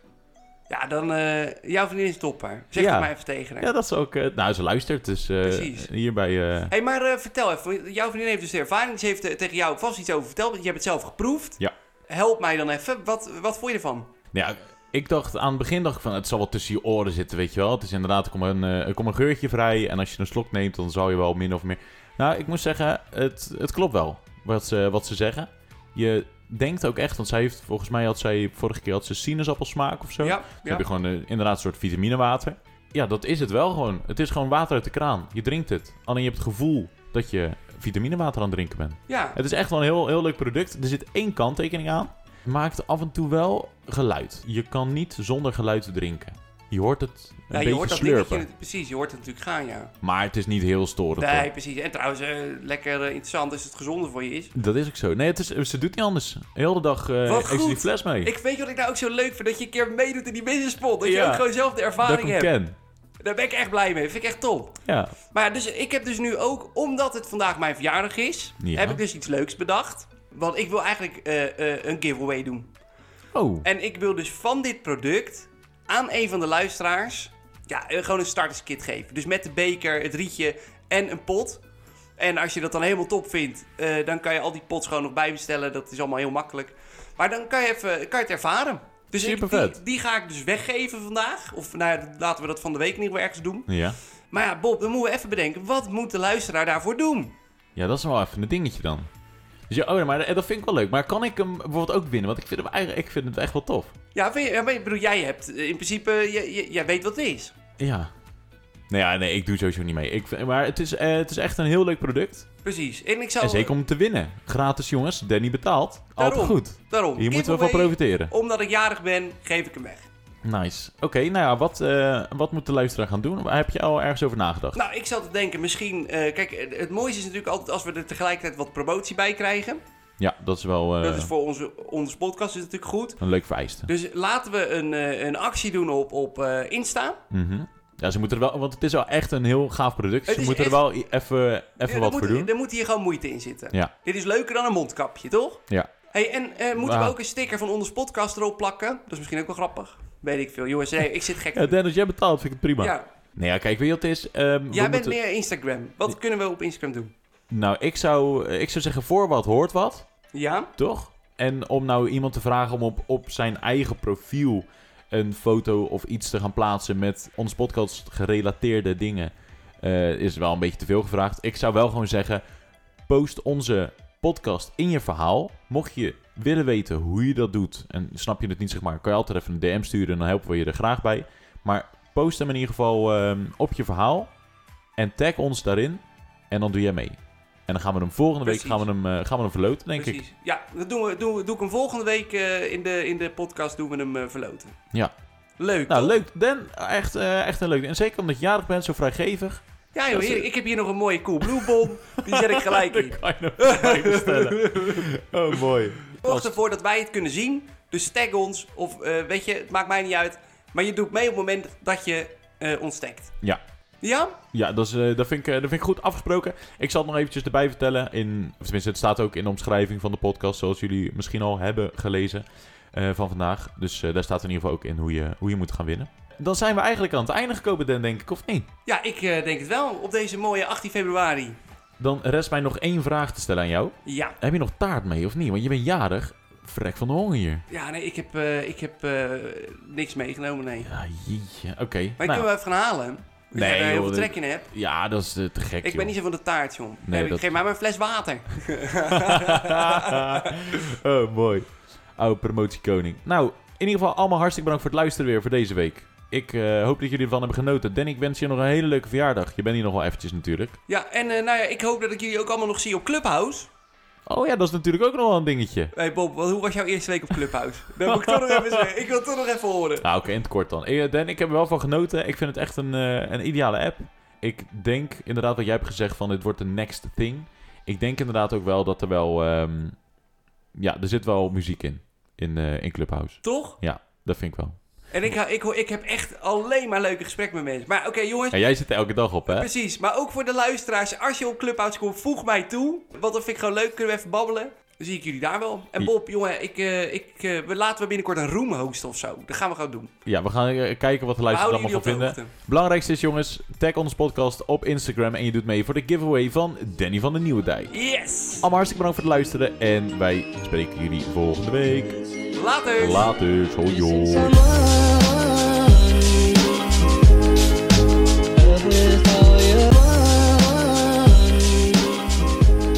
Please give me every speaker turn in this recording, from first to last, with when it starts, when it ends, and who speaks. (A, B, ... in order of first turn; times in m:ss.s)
0:00.7-0:03.7 A
0:02.8-0:06.7 B
0:05.4-0:05.9 A
0:06.7-0:14.1 A
0:14.3-0:48.5 B
0:30.2-0:30.8 A
0:39.1-0:39.4 A
0:47.5-0:49.9 A
0:50.0-0:51.5 B
0:51.2-0:54.5 A
0:54.6-0:58.3 B
0:57.3-1:02.5 A
1:01.0-1:02.8 B
1:03.2-1:04.8 A
1:04.8-1:05.2 B
1:05.3-1:12.7 A
1:08.6-1:09.0 B
1:13.3-1:13.7 B
1:13.6-1:21.6 A
1:22.2-1:33.7 A
1:29.2-1:29.8 B
1:33.7-1:34.0 B
1:34.3-1:37.4 A
1:37.8-1:39.1 B
1:39.7-1:44.0 B
1:44.1-1:47.6 A
1:47.8-1:48.1 B
1:48.9-1:52.5 B
1:52.6-1:53.7 A
1:53.4-1:58.3 B
1:56.2-2:00.1 A
2:00.4-2:04.8 B
2:04.7-2:09.8 A
2:10.2-2:11.3 B
2:11.0-2:13.2 A
2:13.2-2:13.9 B
2:13.9-2:17.2 A
2:17.3-2:22.5 B
2:20.3-2:20.8 A
2:21.8-2:31.8 A
2:26.8-2:27.2 B
2:31.5-2:35.2 B
2:32.8-2:33.1 A
2:34.7-2:37.1 A
2:37.5-2:40.1 B
2:40.3-2:40.7 A
2:40.8-2:52.4 B
2:53.1-3:04.3 B
3:05.0-3:10.2 B
3:08.4-3:08.8 A
3:10.0-3:14.8 A
3:15.6-3:16.2 A
3:15.9-3:20.5 B
3:20.0-3:25.1 A
3:21.4-3:26.6 B
3:26.2-3:33.3 A
3:34.0-3:34.4 A
3:34.5-3:48.7 B
3:48.9-3:51.6 A
3:52.0-3:57.6 B
3:54.0-3:54.4 A
3:57.7-4:00.9 A
4:00.8-4:02.5 B
4:02.2-4:04.7 A
4:03.5-4:06.1 B
4:05.8-4:10.9 A
4:07.0-4:07.6 B
4:09.1-4:20.8 B
4:20.9-4:23.7 A
4:24.3-4:25.9 B
4:26.0-4:30.1 A
4:28.1-4:28.9 B
4:30.0-4:40.0 B
4:40.8-4:44.8 B
4:43.4-4:43.8 A
4:45.1-4:48.6 A
4:48.5-4:49.7 B
4:49.5-5:00.1 A
5:00.2-5:07.9 B
5:01.5-5:02.5 A
5:07.9-5:08.7 A
5:08.6-5:12.2 B
5:12.5-5:13.3 A
5:13.0-5:14.6 B
5:13.9-5:22.3 C